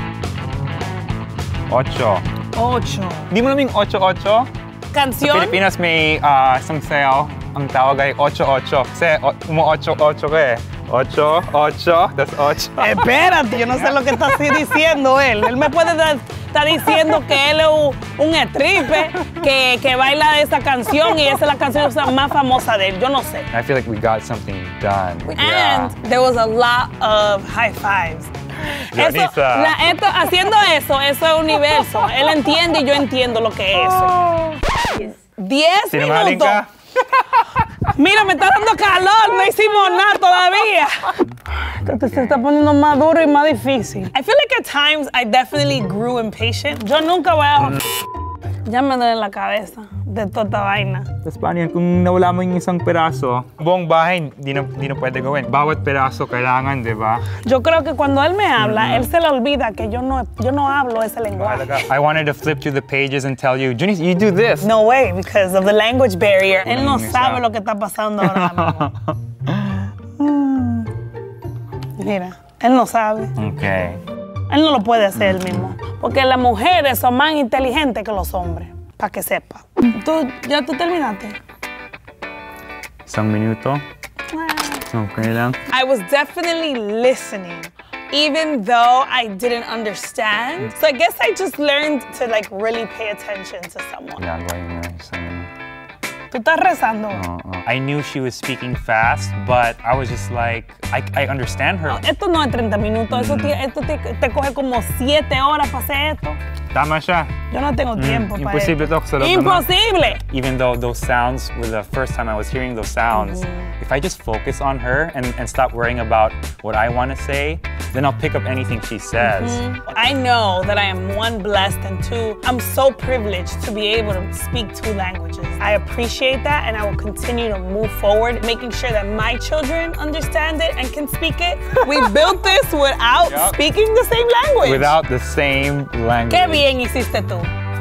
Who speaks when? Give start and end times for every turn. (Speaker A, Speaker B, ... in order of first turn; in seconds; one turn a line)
Speaker A: 1.7-2.2
Speaker B: 2.5-3.3
Speaker A: 3.3-4.5
Speaker B: 4.9-5.6
Speaker A: 5.2-13.1
Speaker B: 12.8-23.5
Speaker A: 13.7-14.5
Speaker A: 23.5-25.9
Speaker B: 25.2-36.6
Speaker A: 28.9-29.8
Speaker A: 35.9-37.9
Speaker B: 37.9-47.9
Speaker B: 48.6-51.1
Speaker A: 51.2-57.3
Speaker B: 57.4-61.8
Speaker A: 58.6-59.1
Speaker A: 61.4-64.7
Speaker B: 64.6-68.9
Speaker A: 66.7-67.4
Speaker A: 68.2-70.9
Speaker B: 72.0-73.3
Speaker A: 73.4-74.0
Speaker B: 74.5-81.4
Speaker A: 75.2-75.8
Speaker A: 83.1-83.8
Speaker B: 84.3-84.8
Speaker A: 84.8-85.6
Speaker B: 85.7-94.2
Speaker A: 94.2-95.5
Speaker B: 96.3-97.2
Speaker A: 97.1-102.0
Speaker B: 101.9-106.4
Speaker A: 103.1-103.6
Speaker A: 106.7-107.3
Speaker B: 107.5-110.2
Speaker A: 108.0-119.6
Speaker B: 113.1-113.7
Speaker B: 119.2-135.0
Speaker A: 133.2-133.6
Speaker A: 134.6-136.7
Speaker B: 136.3-137.5